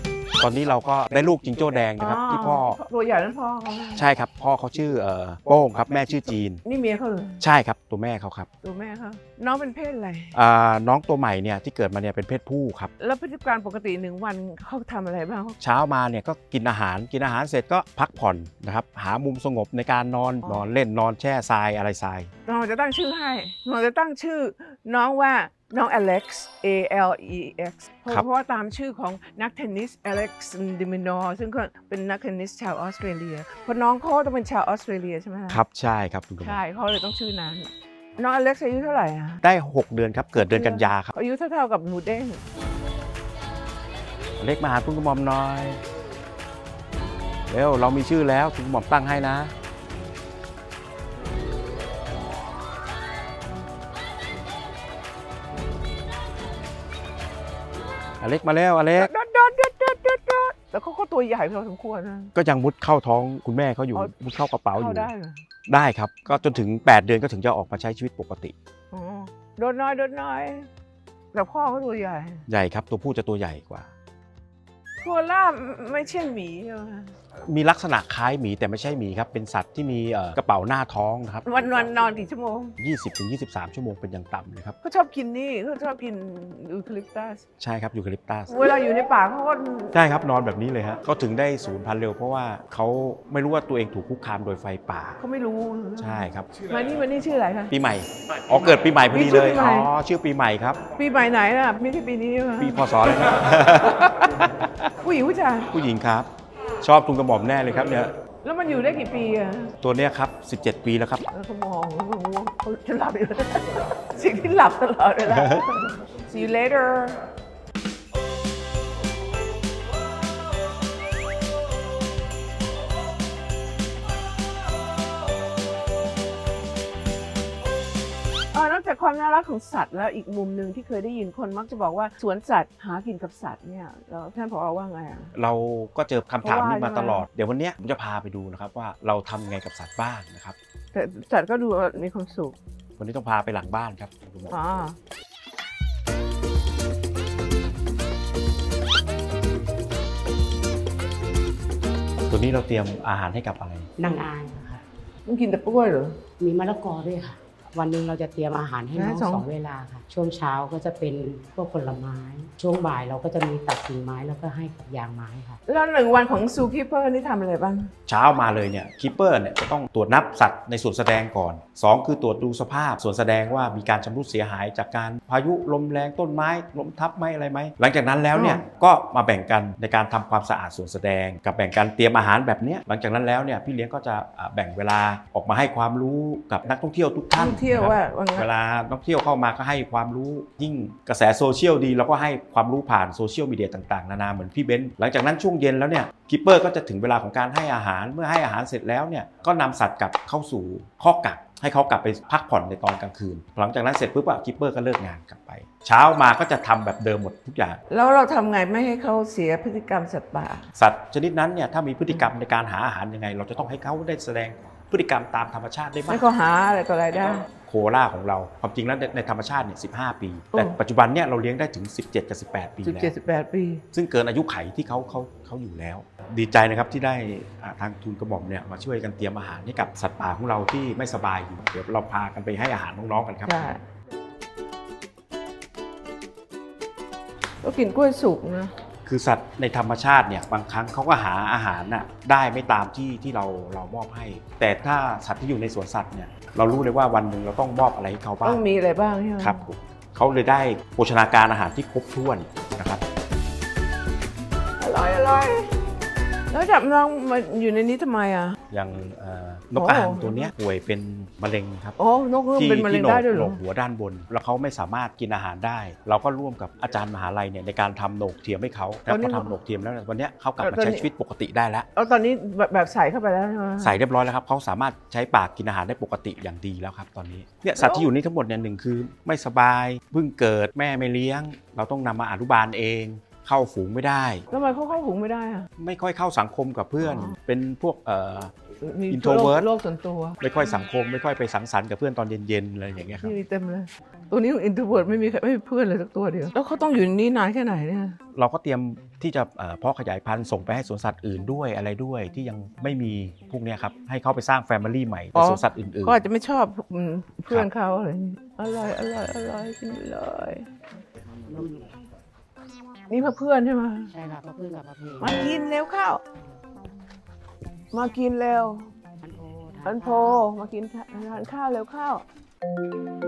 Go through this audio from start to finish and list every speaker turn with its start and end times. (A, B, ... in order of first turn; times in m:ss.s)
0:00.4-0:02.8 A
0:02.0-0:04.0 B
0:04.0-0:06.6 A
0:06.6-0:07.4 B
0:07.4-0:08.5 A
0:08.6-0:10.3 B
0:10.3-0:12.9 A
0:13.0-0:15.6 B
0:15.6-0:22.3 A
0:20.4-0:20.7 B
0:22.4-0:35.6 B
0:35.5-0:36.6 A
0:36.4-0:39.4 B
0:39.4-0:41.1 A
0:40.4-0:42.4 B
0:44.4-0:45.8 A
0:47.5-0:49.5 A
0:58.2-0:59.1 A
0:59.0-1:02.3 B
1:02.3-1:05.1 A
1:04.7-1:05.4 B
1:05.7-1:08.5 A
1:08.9-1:10.7 B
1:11.3-1:12.4 B
1:12.5-1:13.9 A
1:15.0-1:17.1 B
1:17.4-1:21.6 A
1:21.4-1:22.8 B
1:22.8-1:24.8 A
1:24.8-1:27.4 B
1:27.6-1:28.5 A
1:28.5-1:29.9 B
1:29.9-1:35.2 A
1:35.2-1:37.7 B
1:36.0-1:36.5 A
1:37.7-1:40.8 A
1:39.1-1:39.9 B
1:41.0-1:43.2 B
1:42.6-1:44.7 A
1:45.0-1:45.7 B
1:45.7-1:46.3 A
1:46.8-1:48.1 A
1:48.4-1:49.7 B
1:49.8-1:51.2 A
1:51.3-1:57.2 B
1:55.3-1:55.8 A
2:08.5-2:15.3 B
2:15.3-2:20.6 A
2:16.4-2:17.2 B
2:20.9-2:22.6 B
2:23.0-2:24.6 A
2:24.5-2:24.9 B
2:32.3-2:33.9 A
2:34.0-2:34.8 C
2:35.2-2:36.2 B
2:36.4-2:45.6 C
2:38.9-2:39.5 B
2:45.7-2:47.9 B
2:48.1-3:27.8 A
2:58.3-2:58.6 B
3:07.3-3:08.5 B
3:27.9-3:30.7 B
3:30.7-3:36.2 A
3:36.1-3:37.4 B
3:37.4-3:43.1 A
3:42.8-3:43.8 B
3:43.9-3:53.5 A
3:53.4-3:53.8 B
3:57.6-3:58.7 B
3:59.0-4:08.6 A
4:08.4-4:09.6 B
4:09.4-4:13.0 A
4:14.8-4:15.7 B
4:16.5-4:18.6 B
4:18.7-4:22.0 A
4:19.7-4:20.5 B
4:22.0-4:23.6 B
4:22.6-4:31.9 A
4:29.1-4:29.5 B
4:30.6-4:31.1 B
4:31.9-4:34.0 B
4:33.8-4:44.4 A
4:37.8-4:38.1 B
4:44.5-4:45.7 B
4:45.8-4:48.5 A
4:47.0-4:47.4 B
4:48.8-4:50.4 B
4:49.1-4:49.7 A
4:50.4-4:53.4 A
4:53.2-4:58.2 B
4:58.3-5:06.2 A
5:05.3-5:10.6 B
5:11.4-5:11.9 C
5:13.1-5:14.1 B
5:14.1-5:15.5 C
5:15.2-5:16.2 B
5:17.9-5:18.9 B
5:19.2-5:20.4 C
5:19.8-5:22.2 B